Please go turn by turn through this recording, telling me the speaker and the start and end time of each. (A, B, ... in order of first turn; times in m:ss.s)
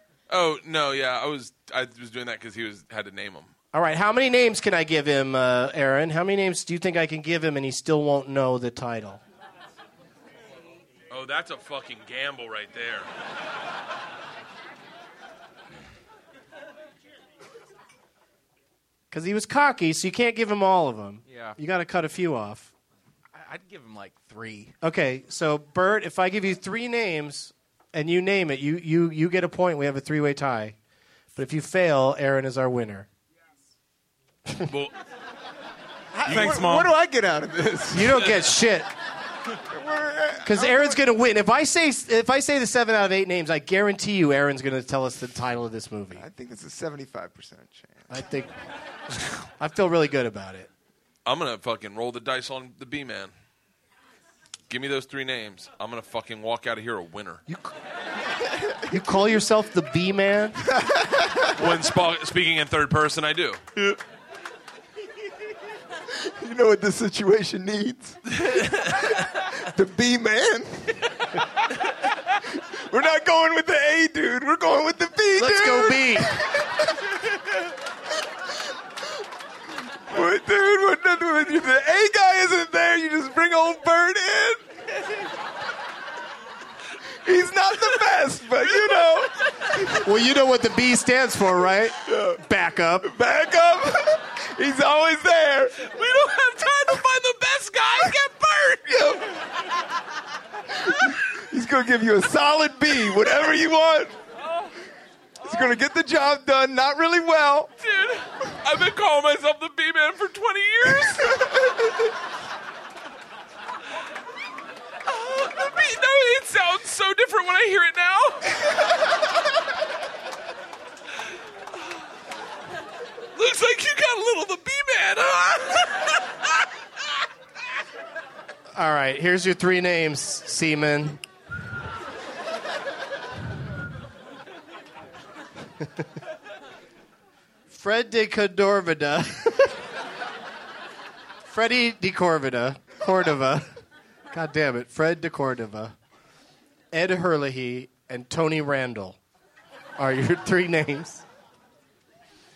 0:00.3-0:03.5 A
0:03.7-0:09.2 B
0:11.1-0:13.1 A
0:19.1-0:22.7 B
0:21.3-0:21.6 C
0:23.3-0:24.8 C
0:24.8-0:30.8 B
0:31.4-0:33.1 B
0:34.7-0:34.9 A
0:36.2-0:38.4 D
0:36.3-0:36.6 A
0:36.3-0:36.9 C
0:37.9-0:38.9 B
0:39.7-0:41.0 D
0:40.4-0:46.2 B
0:46.2-0:48.1 D
0:48.1-0:48.5 B
0:49.5-0:50.7 B
0:51.2-0:53.3 A
0:54.7-0:57.4 A
0:57.5-0:57.7 B
0:58.5-0:59.0 D
0:58.9-1:00.6 B
1:00.6-1:01.6 D
1:01.6-1:03.6 A
1:06.1-1:11.3 D
1:08.4-1:08.8 A
1:12.5-1:17.2 D
1:15.4-1:16.4 B
1:20.0-1:24.7 D
1:27.2-1:30.0 D
1:29.9-1:33.1 B
1:32.0-1:32.4 D
1:33.0-1:35.8 D
1:35.8-1:39.1 A
1:38.9-1:39.3 D
1:40.8-1:44.2 D
1:45.4-1:47.7 D
1:47.8-1:51.7 A
1:55.1-1:58.5 A
2:03.4-2:06.3 A
2:08.8-2:11.2 B
2:17.7-2:19.8 B
2:21.5-2:23.7 B
2:24.3-2:26.0 B
2:26.9-2:29.2 B
2:30.0-2:31.2 B